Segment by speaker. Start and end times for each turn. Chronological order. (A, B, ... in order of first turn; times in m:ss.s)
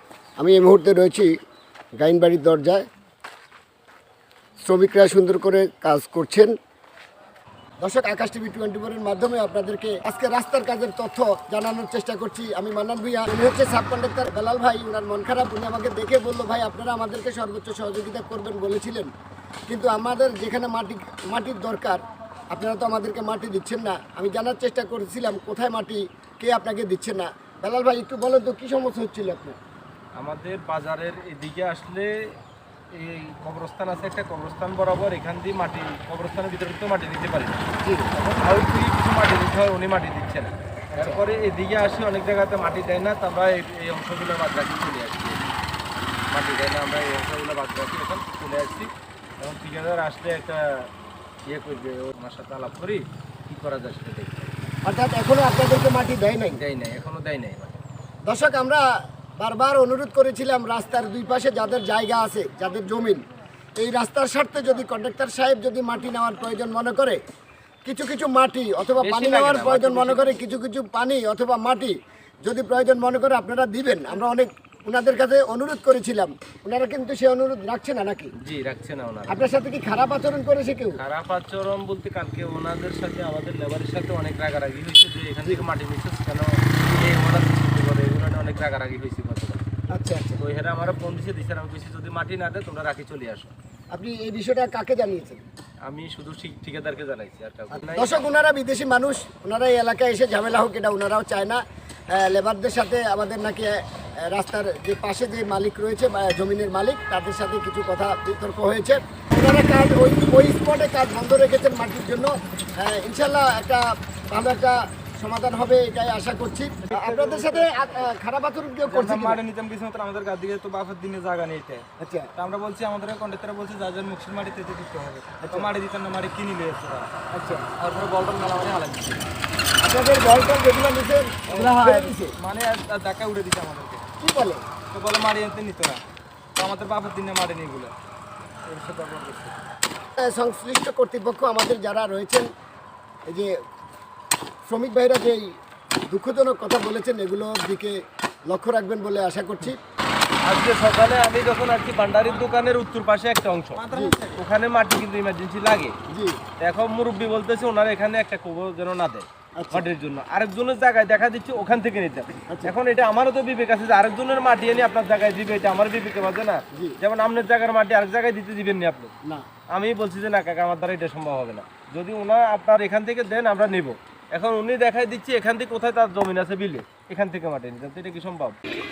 0:00.4-0:01.3 A
0:02.0-0:02.8 A
0:04.6-0:06.6 A
0:07.8-0:19.1 A
0:19.7-0:29.6 A
0:30.2-0:32.1 B
0:32.9-0:37.6 B
0:37.8-0:38.2 A
0:38.2-0:45.4 B
0:40.9-0:41.2 A
0:46.3-0:50.9 B
0:51.5-0:54.5 B
0:54.8-0:56.6 A
0:56.6-0:57.8 B
0:58.2-0:58.8 A
0:59.4-1:03.2 A
1:03.8-1:07.2 A
1:07.8-1:18.3 A
1:09.0-1:10.3 B
1:18.4-1:19.4 B
1:19.3-1:21.0 A
1:20.9-1:29.6 B
1:29.9-1:30.4 A
1:30.4-1:33.5 B
1:33.9-1:35.4 A
1:35.8-1:38.2 B
1:37.7-1:41.6 A
1:42.1-1:59.4 A
1:56.9-1:58.1 C
1:58.8-2:07.1 C
2:02.0-2:02.3 A
2:05.4-2:05.7 A
2:07.3-2:07.7 A
2:07.7-2:09.2 C
2:09.8-2:12.3 A
2:11.5-2:14.0 C
2:14.2-2:14.6 A
2:14.9-2:16.0 C
2:16.6-2:17.9 C
2:18.6-2:19.5 C
2:20.2-2:22.5 A
2:23.3-2:23.6 A
2:24.7-2:25.6 A
2:26.1-2:29.8 A
2:30.4-2:33.8 B
2:33.7-2:34.4 C
2:33.9-2:34.2 A
2:34.4-2:35.9 B
2:36.1-2:36.4 A
2:36.6-2:49.1 B
2:39.5-2:39.9 A
2:42.5-2:42.7 A
2:46.7-2:47.0 A
2:49.7-2:58.6 B